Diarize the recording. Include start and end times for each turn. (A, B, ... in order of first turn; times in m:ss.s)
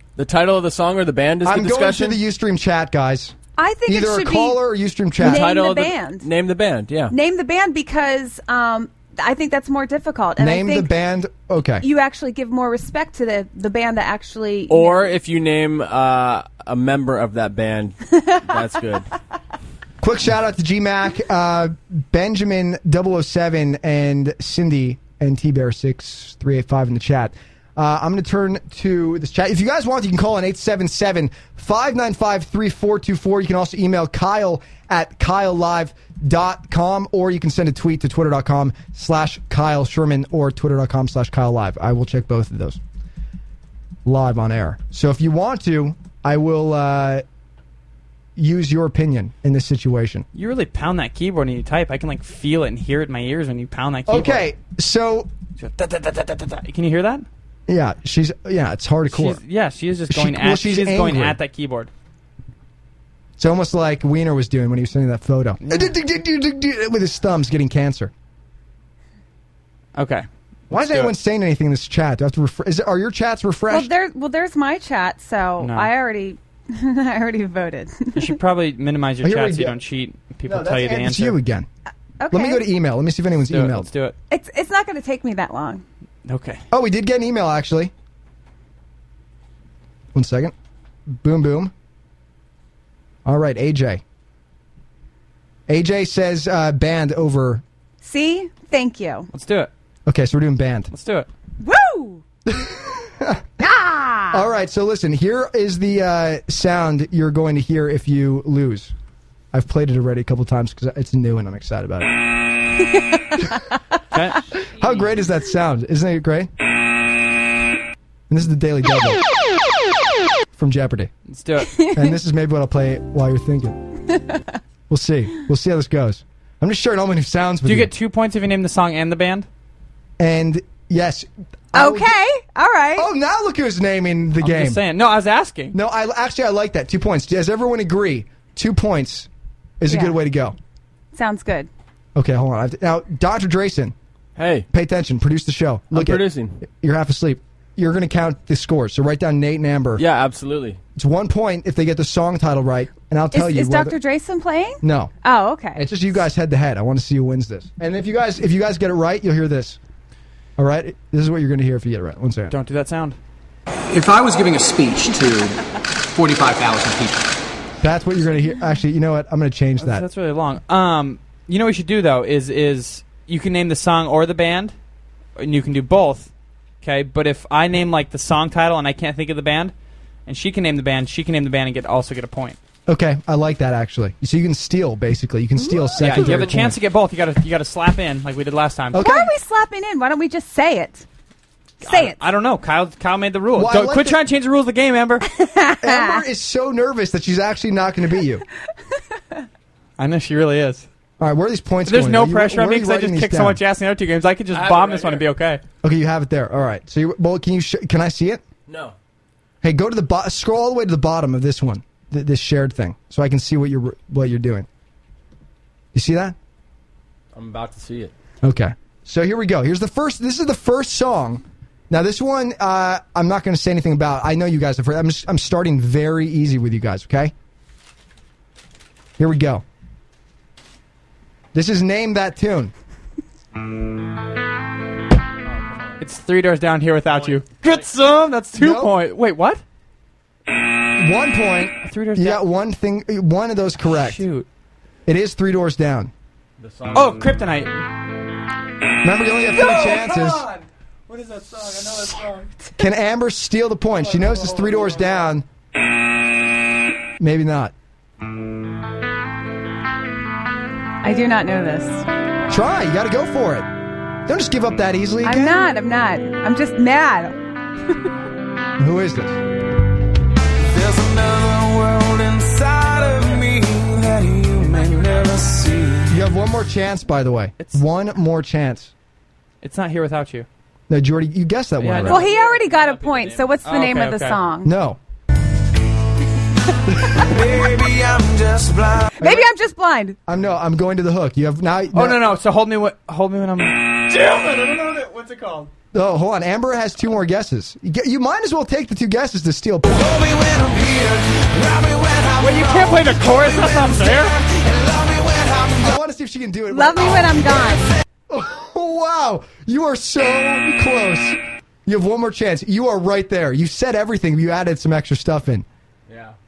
0:00.2-0:02.2 A
0:01.4-0:03.4 B
0:03.6-0:04.6 C
0:03.9-0:05.6 B
0:05.2-0:06.3 C
0:05.2-0:07.1 A
0:07.1-0:10.9 C
0:10.4-0:11.9 B
0:11.8-0:15.2 C
0:14.7-0:19.1 A
0:20.0-0:42.8 B
0:44.0-0:47.2 B
0:48.4-0:50.3 B
0:50.3-0:54.4 D
0:54.1-0:55.3 B
0:55.6-0:57.3 D
0:57.7-0:59.4 B
0:59.1-1:01.9 D
1:00.1-1:01.4 B
1:03.4-1:08.1 B
1:05.6-1:05.9 D
1:10.0-1:11.1 D
1:10.7-1:13.9 B
1:13.7-1:18.4 C
1:15.6-1:15.9 D
1:18.2-1:21.4 D
1:19.2-1:19.8 B
1:20.5-1:21.7 B
1:22.2-1:22.6 C
1:22.3-1:23.9 B
1:23.5-1:24.2 D
1:24.3-1:25.8 C
1:26.3-1:26.6 D
1:26.7-1:27.9 B
1:30.1-1:30.5 B
1:31.1-1:31.7 B
1:33.2-1:34.0 B
1:35.7-1:37.6 B
1:38.0-1:39.3 C
1:39.3-1:39.7 D
1:40.1-1:40.9 B
1:40.9-1:41.3 D
1:41.6-1:42.2 C
1:42.5-1:43.4 B
1:43.6-1:44.4 C
1:44.3-1:48.9 B
1:49.5-1:52.1 B
1:52.9-1:53.7 C
1:54.1-1:55.0 D
1:54.8-1:56.5 B
1:58.3-1:59.2 B
2:00.5-2:01.1 B
2:01.3-2:01.7 D
2:01.7-2:02.1 C
2:02.0-2:03.8 B
2:04.9-2:07.9 B
2:07.6-2:09.5 D
2:10.2-2:12.2 B
2:11.7-2:13.1 C
2:13.0-2:14.8 B
2:14.4-2:15.8 D
2:15.7-2:19.3 B
2:19.8-2:20.6 B
2:19.9-2:20.2 C
2:21.1-2:21.7 C
2:22.2-2:24.0 B
2:24.4-2:24.7 A
2:24.7-2:30.0 B
2:25.9-2:26.6 A
2:30.0-2:30.8 A
2:31.0-2:34.0 B
2:33.3-2:35.8 C
2:34.8-2:35.1 B
2:35.8-2:39.8 B
2:40.6-2:42.6 B
2:42.5-2:43.2 D
2:43.9-2:47.3 E
2:47.8-2:50.1 B
2:49.8-2:54.7 D
2:55.4-2:56.3 D
2:56.8-2:59.7 D
3:00.3-3:02.6 D
3:02.9-3:06.8 B
3:05.6-3:06.5 C
3:06.0-3:09.0 D
3:08.9-3:09.3 B
3:09.0-3:11.0 C
3:11.8-3:12.2 C
3:11.8-3:15.3 D
3:13.6-3:14.2 B
3:15.3-3:16.2 C
3:15.8-3:18.4 B
3:20.0-3:20.9 D
3:21.2-3:23.6 B
3:21.9-3:25.6 D
3:24.5-3:25.3 A
3:25.8-3:28.4 B
3:28.7-3:29.0 A
3:29.6-3:34.7 B
3:35.9-3:36.4 B
3:37.3-3:38.1 A
3:38.4-3:47.3 B
3:49.2-3:49.6 B
3:51.5-3:52.7 B
3:55.5-3:56.0 A
3:56.0-3:59.6 D
3:57.1-3:57.9 A
3:58.6-3:58.9 B
4:01.0-4:04.2 B
4:01.8-4:02.4 D
4:03.8-4:04.5 D
4:05.1-4:06.1 B
4:06.6-4:07.3 A
4:06.9-4:07.8 D
4:09.0-4:10.4 B
4:09.5-4:12.5 D
4:12.8-4:15.5 B
4:14.0-4:15.1 D
4:17.2-4:17.7 B
4:21.0-4:22.0 C
4:22.5-4:23.7 B
4:24.3-4:25.6 B
4:25.2-4:27.4 C
4:28.8-4:29.4 B
4:30.6-4:36.1 F
4:36.1-4:38.9 B
4:39.6-4:40.5 D
4:40.9-4:42.2 B
4:41.8-4:42.3 D
4:42.1-4:43.7 A
4:42.1-4:44.7 C
4:43.6-4:44.4 D
4:44.6-4:45.0 B
4:47.1-4:49.1 F
4:49.2-4:49.5 B
4:49.2-4:50.2 C
4:50.3-4:52.2 B
4:51.9-4:55.7 D
4:55.9-5:00.0 B
4:59.9-5:05.9 F
5:02.4-5:04.4 D
5:05.8-5:07.6 B
5:06.7-5:07.9 C
5:08.3-5:15.6 B
5:16.1-5:16.4 A